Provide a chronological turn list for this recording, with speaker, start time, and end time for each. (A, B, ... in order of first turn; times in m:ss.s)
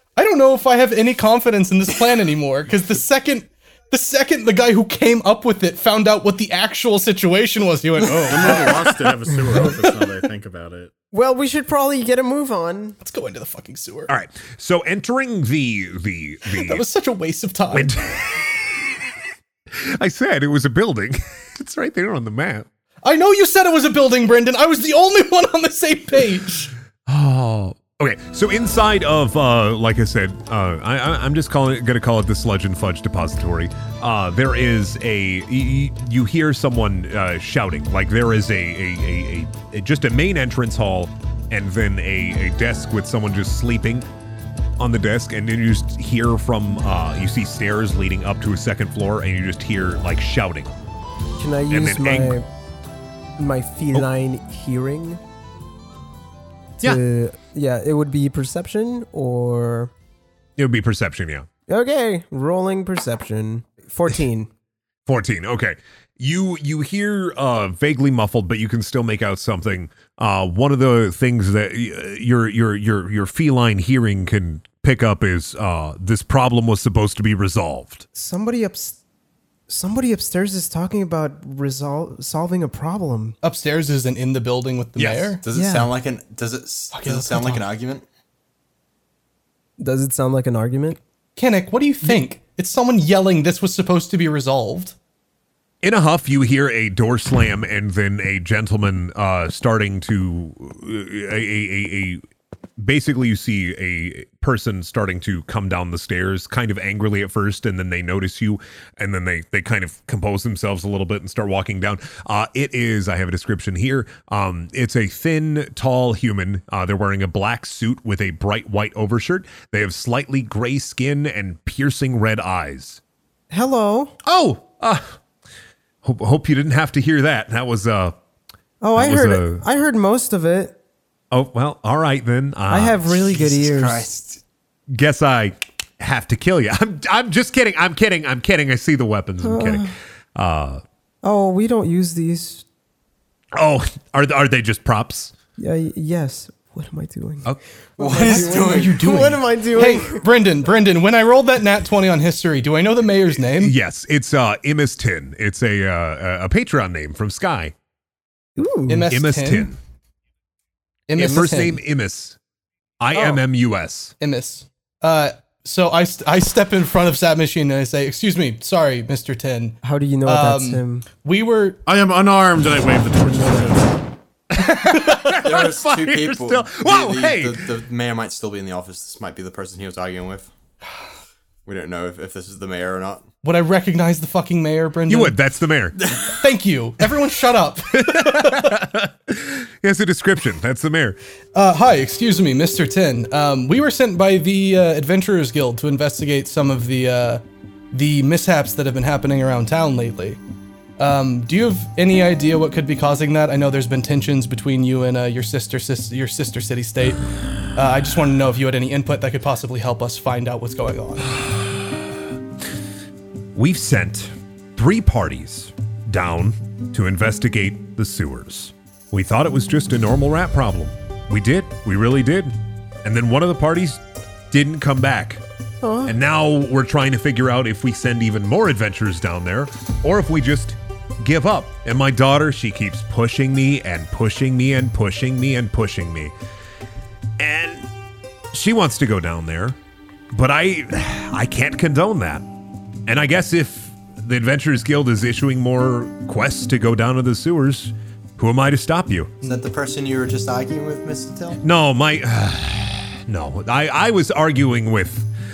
0:00.2-0:08.8 A
0:08.3-0:10.9 B
0:08.3-0:08.8 C
0:11.1-0:13.0 D
0:13.0-0:14.1 A
0:14.1-0:16.8 E
0:16.5-0:17.9 A
0:17.7-0:18.6 E
0:19.7-0:22.7 E
0:23.0-0:26.7 A
0:27.1-0:44.1 E
0:44.8-0:50.7 E
0:51.4-0:52.5 D
0:51.7-0:52.4 E
0:53.4-0:55.2 D
0:56.8-0:59.9 D
1:00.6-1:01.5 E
1:01.7-1:04.5 D
1:05.0-1:18.0 E
1:18.1-1:19.0 D
1:19.7-1:23.4 D
1:23.4-1:25.4 A
1:25.0-1:25.4 E
1:25.4-1:28.0 C
1:25.5-1:25.9 D
1:26.9-1:27.6 A
1:29.8-1:31.0 D
1:31.4-1:34.9 A
1:35.8-1:42.2 E
1:42.8-2:03.0 E
2:03.5-2:04.2 D
2:04.2-2:05.2 E
2:06.0-2:08.2 E
2:08.8-2:10.8 D
2:08.9-2:09.6 E
2:11.3-2:13.1 E
2:12.7-2:14.1 D
2:13.2-2:14.4 C
2:14.9-2:20.8 E
2:19.4-2:19.9 D
2:21.2-2:22.6 D
2:23.5-2:25.3 E
2:25.6-2:30.2 D
2:28.0-2:29.3 C
2:28.1-2:33.7 A
2:33.5-2:37.7 E
2:38.6-2:39.1 D
2:38.9-2:39.7 A
2:39.1-2:39.8 E
2:41.1-2:41.8 A
2:41.2-2:42.4 E
2:43.0-2:44.1 E
2:44.2-2:51.8 A
2:49.8-2:51.0 D
2:51.8-2:54.0 B
2:54.5-2:57.7 E
2:55.3-3:00.5 C
3:01.6-3:03.2 C
3:03.4-3:05.4 A
3:05.1-3:06.0 E
3:06.3-3:08.8 A
3:08.0-3:11.2 E
3:11.5-3:17.4 A
3:17.9-3:20.4 A
3:21.0-3:31.4 A
3:31.4-3:31.9 E
3:33.5-3:45.4 E
3:45.8-3:46.1 D
3:46.0-3:56.3 E
3:57.4-3:57.9 E
3:58.5-3:59.8 E
4:00.3-4:02.4 E
4:03.1-4:09.3 E
4:09.4-4:11.6 C
4:11.6-4:15.3 E